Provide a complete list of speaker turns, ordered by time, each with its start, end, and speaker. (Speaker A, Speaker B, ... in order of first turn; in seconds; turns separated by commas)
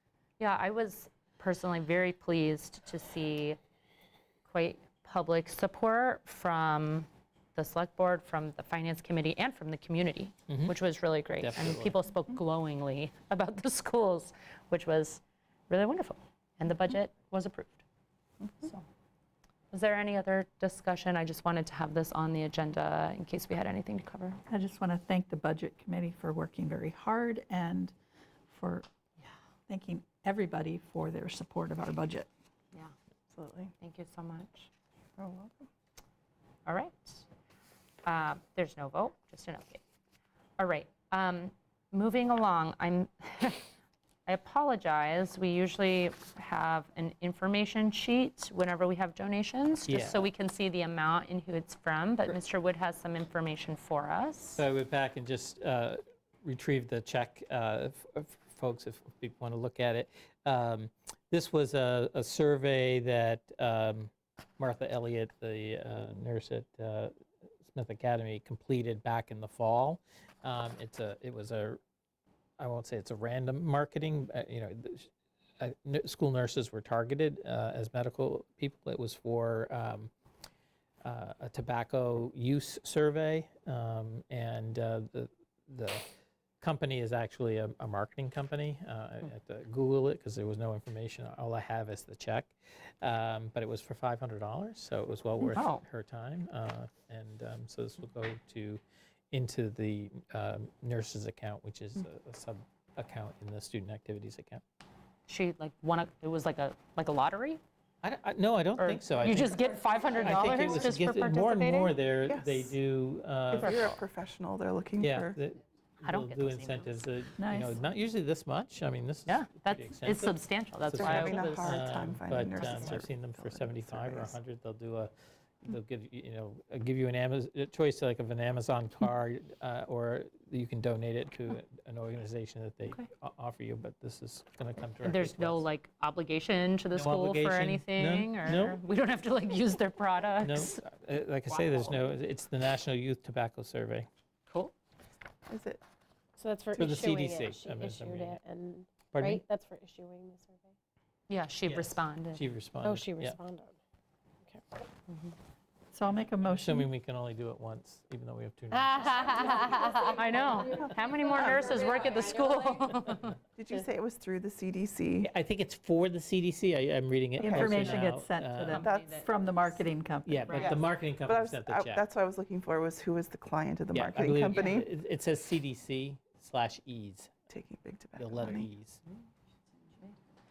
Speaker A: 0.4-3.6, Speaker A: 4.4-17.8, Speaker B: 10.5-10.7, Speaker B: 11.4-11.9, Speaker A: 19.7-24.4, Speaker C: 24.5-27.9, Speaker C: 28.5-28.9, Speaker C: 29.7-32.3, Speaker D: 33.3-33.7, Speaker A: 33.8-34.7, Speaker D: 35.2-35.7, Speaker A: 36.6-37.2, Speaker A: 38.0-39.8, Speaker A: 40.6-43.7, Speaker A: 44.2-54.6, Speaker B: 49.9-50.3, Speaker B: 54.6-67.1, Speaker B: 67.7-71.8, Speaker B: 72.6-80.1, Speaker B: 81.0-86.0, Speaker B: 86.6-104.6, Speaker A: 95.5-95.8, Speaker A: 105.3-107.6, Speaker B: 108.0-114.0, Speaker A: 108.8-112.0, Speaker D: 112.2-112.8, Speaker D: 113.5-115.4, Speaker B: 115.0-125.1, Speaker A: 116.0-116.9, Speaker C: 117.4-117.8, Speaker A: 119.2-121.9, Speaker D: 120.9-124.3, Speaker A: 122.5-122.9, Speaker B: 125.6-135.6, Speaker A: 135.0-140.8, Speaker B: 136.9-138.8, Speaker B: 140.4-144.1, Speaker A: 141.5-142.0, Speaker A: 144.5-144.7, Speaker D: 145.5-145.8, Speaker E: 146.4-150.7, Speaker B: 146.7-148.4, Speaker B: 149.1-149.4, Speaker A: 151.3-152.4, Speaker B: 151.7-153.4, Speaker E: 152.8-153.8, Speaker C: 155.9-156.9, Speaker B: 156.4-159.7, Speaker E: 158.7-160.2, Speaker A: 159.9-163.4, Speaker E: 160.8-162.1, Speaker D: 161.3-161.7, Speaker D: 163.6-165.3, Speaker B: 165.2-168.8, Speaker C: 167.4-170.5, Speaker A: 168.7-169.8, Speaker D: 168.8-169.2, Speaker B: 170.2-172.0, Speaker A: 170.4-170.8, Speaker D: 170.5-174.9, Speaker B: 173.9-177.3, Speaker D: 177.5-178.7, Speaker B: 178.2-179.0